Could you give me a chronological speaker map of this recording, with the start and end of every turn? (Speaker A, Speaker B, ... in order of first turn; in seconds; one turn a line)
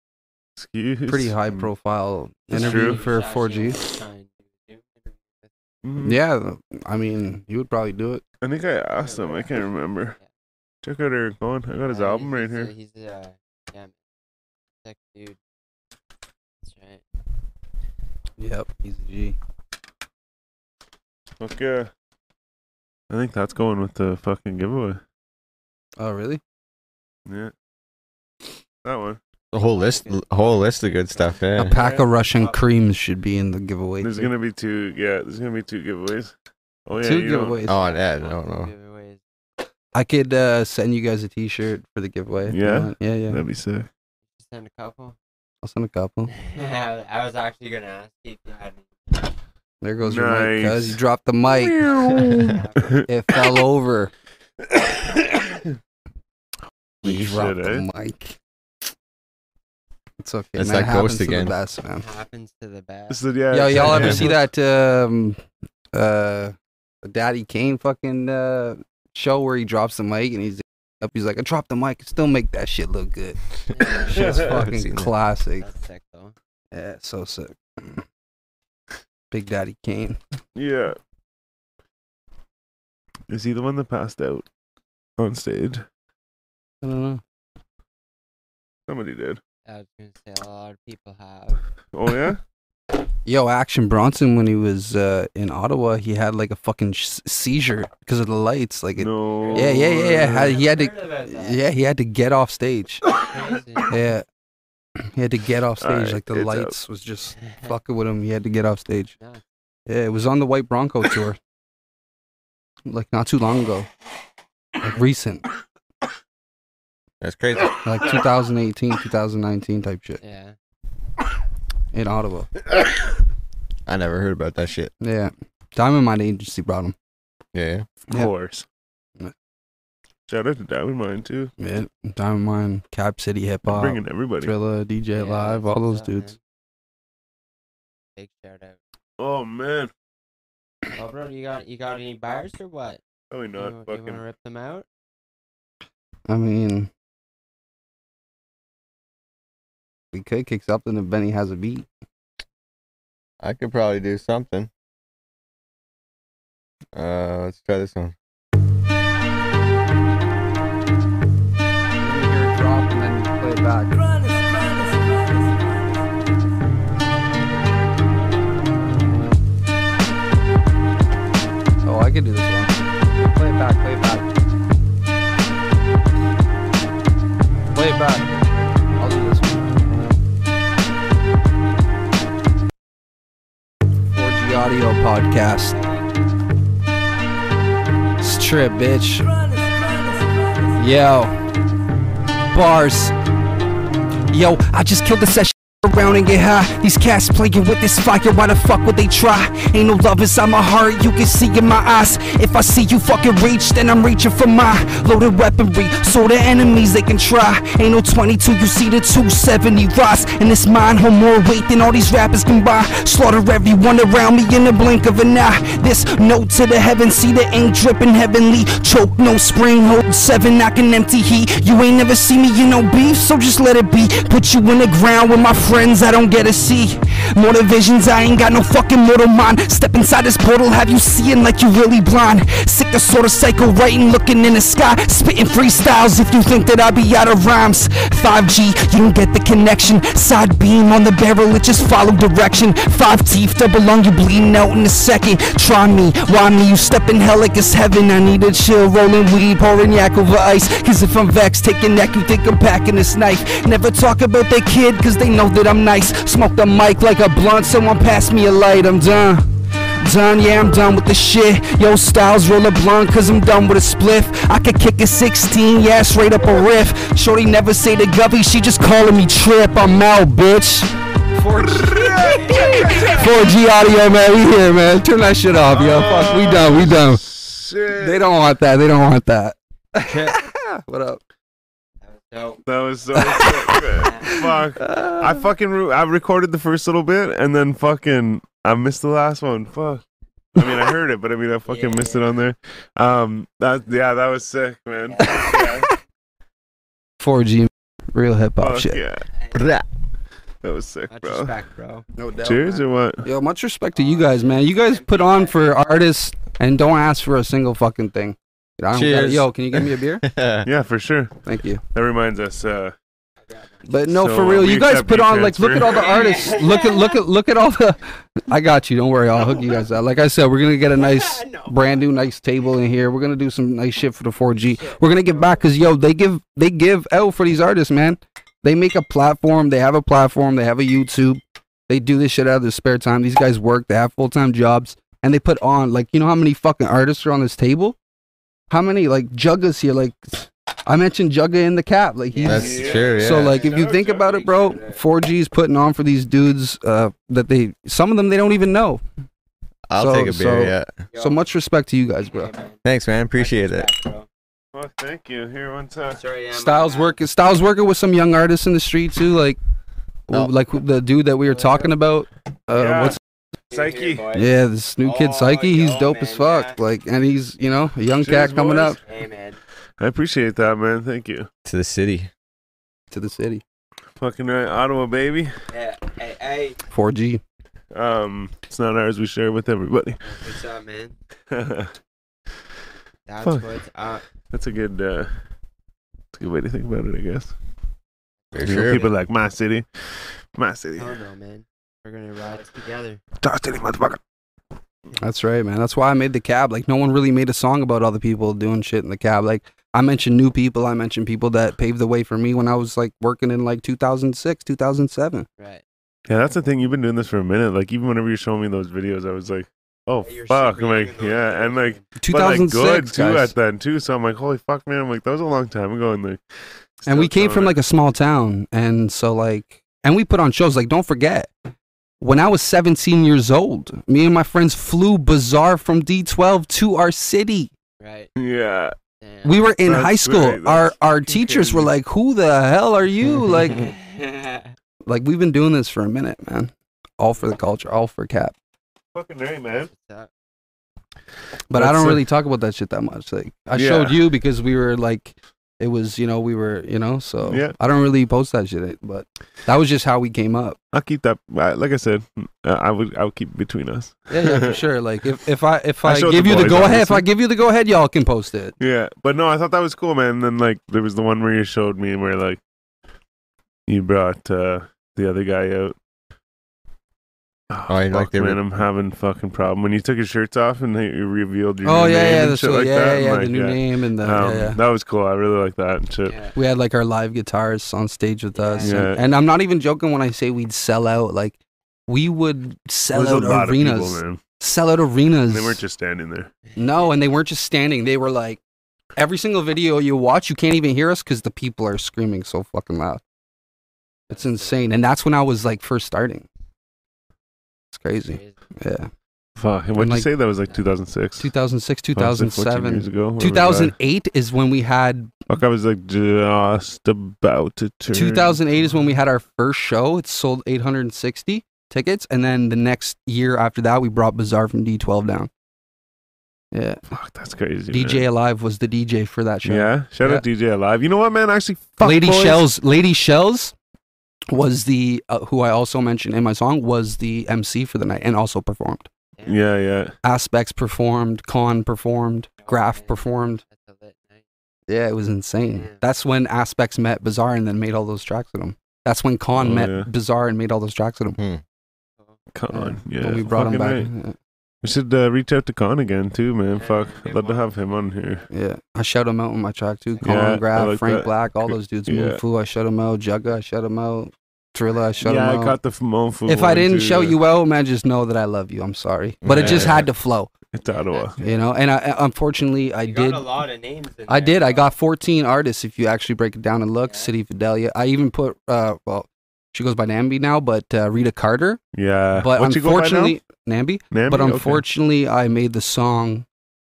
Speaker A: 0.6-1.7
Speaker B: 1.1-3.8
Speaker A: 2.5-3.0
Speaker C: 2.5-5.5
Speaker A: 5.8-6.2
Speaker B: 6.0-8.2
Speaker A: 8.4-10.2
Speaker C: 9.0-10.3
Speaker A: 10.8-12.7
Speaker C: 11.9-13.9
Speaker C: 14.8-15.4
Speaker C: 16.6-17.0
Speaker B: 18.4-19.4
Speaker A: 21.4-21.9
Speaker A: 23.1-25.0
Speaker B: 26.0-26.4
Speaker A: 27.3-27.5
Speaker A: 28.8-29.2
Speaker D: 29.5-31.8
Speaker C: 29.6-32.7
Speaker B: 31.6-34.3
Speaker A: 31.8-32.0
Speaker A: 34.0-36.3
Speaker A: 36.9-37.6
Speaker B: 37.0-37.8
Speaker D: 37.6-38.7
Speaker C: 37.7-39.2
Speaker B: 39.9-43.4
Speaker A: 42.5-43.9
Speaker C: 44.4-45.2
Speaker B: 45.6-46.3
Speaker C: 46.3-49.3
Speaker B: 49.8-51.9
Speaker A: 50.0-53.1
Speaker C: 52.0-53.0
Speaker B: 53.1-54.1
Speaker A: 54.7-55.7
Speaker A: 57.0-57.9
Speaker B: 57.0-58.4
Speaker B: 60.2-62.0
Speaker D: 60.5-61.5
Speaker C: 61.9-63.2
Speaker A: 63.1-64.5
Speaker B: 63.5-65.4
Speaker D: 63.8-64.3
Speaker B: 65.9-73.4
Speaker C: 73.7-74.4
Speaker B: 73.9-75.7
Speaker D: 74.1-75.1
Speaker A: 74.1-74.6
Speaker C: 75.5-76.3
Speaker B: 76.7-78.0
Speaker B: 79.3-80.2
Speaker A: 80.5-81.0
Speaker A: 83.3-84.5
Speaker A: 85.2-85.8
Speaker B: 86.8-87.2
Speaker A: 88.9-89.4
Speaker C: 89.7-91.6
Speaker A: 91.9-92.4
Speaker B: 93.3-103.0
Speaker A: 99.0-100.6
Speaker C: 99.4-101.7
Speaker C: 103.2-104.0
Speaker B: 103.9-104.2
Speaker B: 105.1-109.1
Speaker A: 105.8-106.8
Speaker C: 107.4-107.8
Speaker B: 109.9-111.4
Speaker B: 112.9-113.9
Speaker B: 114.8-115.5
Speaker D: 117.2-117.8
Speaker B: 117.8-120.2
Speaker C: 120.2-120.5
Speaker B: 121.9-122.5
Speaker D: 123.9-124.9
Speaker B: 125.0-127.0
Speaker D: 127.5-127.9
Speaker A: 128.1-128.7
Speaker A: 130.3-131.5
Speaker B: 131.6-136.3
Speaker A: 133.7-134.5
Speaker C: 135.1-136.4
Speaker C: 138.2-138.8
Speaker A: 139.2-139.9
Speaker C: 140.9-143.0
Speaker A: 143.3-144.2
Speaker C: 143.6-144.9
Speaker B: 146.3-146.9
Speaker B: 150.1-151.9
Speaker D: 153.4-154.7
Speaker D: 156.9-158.1
Speaker B: 162.0-164.0
Speaker B: 171.8-174.2
Speaker B: 177.7-178.3
Speaker B: 179.0-179.7
Speaker B: 184.1-185.8
Speaker C: 185.7-186.1
Speaker B: 188.2-189.3
Speaker B: 190.8-191.3
Speaker B: 192.5-193.1
Speaker B: 194.3-197.4
Speaker E: 197.3-256.6
Speaker B: 250.0-250.3
Speaker B: 251.1-253.5
Speaker B: 255.2-259.4
Speaker E: 258.0-258.3
Speaker B: 260.0-261.6
Speaker E: 261.0-269.8
Speaker B: 262.8-263.1
Speaker B: 266.2-267.7
Speaker B: 269.7-277.2
Speaker E: 270.3-270.6
Speaker A: 271.8-273.3
Speaker C: 272.3-272.7
Speaker E: 273.2-273.6
Speaker A: 275.7-278.2
Speaker B: 277.9-281.2
Speaker C: 282.0-282.6
Speaker A: 282.7-290.0
Speaker B: 283.2-283.8
Speaker C: 284.0-284.4
Speaker B: 284.8-285.4
Speaker A: 290.6-295.9
Speaker C: 291.7-292.4
Speaker C: 295.1-295.7
Speaker B: 297.2-299.0
Speaker A: 298.6-299.3
Speaker C: 299.3-299.7
Speaker D: 299.5-299.9
Speaker A: 300.6-301.5
Speaker C: 301.1-302.1
Speaker B: 302.2-310.2
Speaker A: 302.4-303.3
Speaker C: 303.9-305.7
Speaker D: 308.9-310.7
Speaker A: 310.6-311.4
Speaker B: 311.5-311.8
Speaker A: 311.9-312.9
Speaker C: 313.4-314.1
Speaker B: 313.9-338.0
Speaker A: 314.1-316.3
Speaker C: 315.9-317.2
Speaker C: 319.4-319.9
Speaker C: 320.9-322.0
Speaker C: 324.8-325.7
Speaker B: 338.7-349.0
Speaker C: 342.3-345.0
Speaker D: 342.4-343.6
Speaker A: 342.5-344.3
Speaker D: 349.9-351.0
Speaker B: 350.0-352.5
Speaker C: 351.1-351.4
Speaker C: 352.3-352.8
Speaker D: 352.9-353.9
Speaker C: 353.3-354.3
Speaker A: 354.7-356.2
Speaker C: 356.1-357.2
Speaker B: 356.5-359.6
Speaker B: 360.3-363.2
Speaker C: 361.4-361.9
Speaker A: 362.8-363.2
Speaker C: 363.7-366.8
Speaker A: 363.7-364.3
Speaker B: 364.3-369.0
Speaker A: 368.2-369.0
Speaker C: 369.0-369.6
Speaker A: 370.0-371.5
Speaker D: 371.6-372.3
Speaker B: 373.1-373.6
Speaker A: 374.2-375.5
Speaker C: 375.7-376.8
Speaker B: 376.9-377.4
Speaker A: 377.9-380.2
Speaker C: 380.2-381.2
Speaker A: 381.5-381.9
Speaker C: 383.3-384.2
Speaker A: 383.4-383.7
Speaker A: 384.5-385.3
Speaker A: 386.3-387.5
Speaker C: 388.5-389.1
Speaker D: 388.5-389.1
Speaker A: 388.6-391.2
Speaker C: 391.0-393.2
Speaker A: 393.4-394.2
Speaker B: 395.2-405.5
Speaker C: 405.6-405.8
Speaker A: 406.3-416.4
Speaker C: 410.2-412.1
Speaker B: 412.2-413.5
Speaker A: 417.0-417.8
Speaker B: 417.1-421.5
Speaker B: 422.2-427.7
Speaker C: 428.0-428.3
Speaker A: 428.4-428.9
Speaker C: 429.2-429.7
Speaker B: 429.4-433.9
Speaker A: 429.9-431.9
Speaker C: 433.6-434.7
Speaker B: 435.1-438.6
Speaker C: 437.4-437.7
Speaker A: 439.1-439.9
Speaker C: 439.9-440.3
Speaker B: 441.7-450.8
Speaker A: 441.7-442.2
Speaker A: 443.7-444.2
Speaker A: 447.5-447.8
Speaker A: 450.9-454.8
Speaker B: 454.3-458.8
Speaker A: 456.0-457.3
Speaker A: 458.8-462.6
Speaker A: 463.9-465.9
Speaker A: 467.7-476.4
Speaker D: 467.9-468.6
Speaker B: 471.8-474.8
Speaker C: 476.2-476.6
Speaker B: 476.6-481.6
Speaker C: 478.6-479.1
Speaker A: 478.8-479.2
Speaker B: 482.1-485.8
Speaker A: 483.1-484.4
Speaker A: 485.5-486.5
Speaker C: 486.7-487.3
Speaker B: 486.8-488.6
Speaker B: 489.2-493.2
Speaker C: 494.3-494.9
Speaker B: 494.3-496.5
Speaker B: 497.9-499.1
Speaker C: 498.2-498.6
Speaker A: 499.6-501.5
Speaker B: 499.9-500.3
Speaker B: 501.4-505.3
Speaker A: 502.1-503.9
Speaker A: 505.5-508.6
Speaker B: 508.1-515.5
Speaker B: 516.7-517.0
Speaker A: 517.1-518.3
Speaker B: 517.9-520.4
Speaker A: 519.6-522.7
Speaker B: 522.0-523.7
Speaker B: 524.5-529.1
Speaker C: 529.4-529.6
Speaker A: 529.5-530.1
Speaker B: 530.2-533.6
Speaker C: 532.6-534.4
Speaker B: 534.9-541.4
Speaker C: 535.7-536.0
Speaker A: 539.6-540.1
Speaker A: 542.5-544.1
Speaker B: 542.7-544.4
Speaker A: 544.8-548.5
Speaker C: 546.7-548.5
Speaker B: 548.5-555.8
Speaker A: 550.2-552.4
Speaker C: 554.9-555.2
Speaker A: 555.2-557.4
Speaker B: 556.5-560.5
Speaker D: 559.4-560.0
Speaker A: 559.5-560.1
Speaker A: 560.7-561.4
Speaker C: 560.8-561.7
Speaker B: 561.4-563.5
Speaker C: 563.0-564.9
Speaker B: 564.3-571.8
Speaker C: 567.0-567.3
Speaker A: 571.9-573.4
Speaker B: 572.4-576.5
Speaker A: 574.1-574.8